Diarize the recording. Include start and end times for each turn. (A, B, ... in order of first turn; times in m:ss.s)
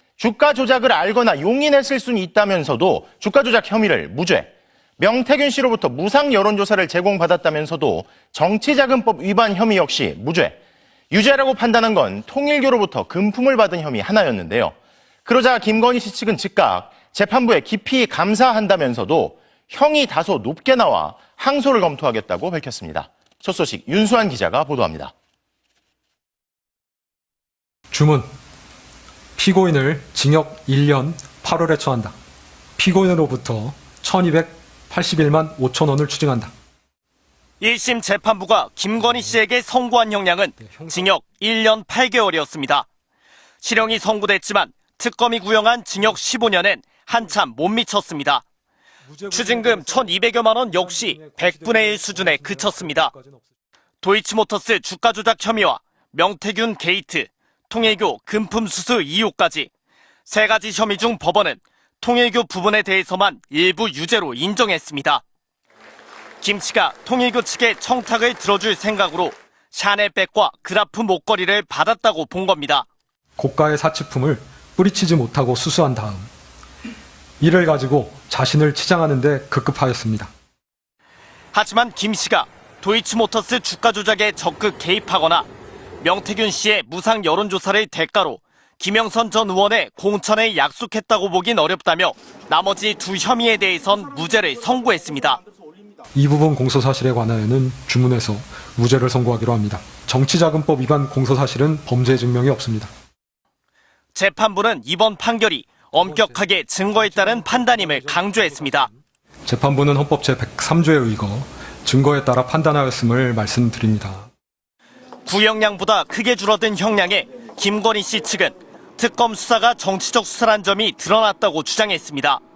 0:00.2-0:10.6 A
0:11.1-0:25.1 A
0:27.9-0:28.2 B
0:29.4-0:32.1 B
0:32.8-0:36.5 B
0:37.6-0:42.8 C
0:40.6-0:41.2 B
0:43.6-0:48.4 C
0:49.0-0:53.5 B
0:49.3-0:53.1 C
0:54.0-0:59.7 C
1:00.3-1:05.2 C
1:06.4-1:12.9 C
1:13.4-1:16.3 B
1:17.4-1:20.3 B
1:21.5-1:25.5 C
1:26.0-1:35.4 C
1:36.1-1:42.9 B
1:44.1-1:48.9 C
1:46.0-1:54.3 B
1:55.2-2:02.4 C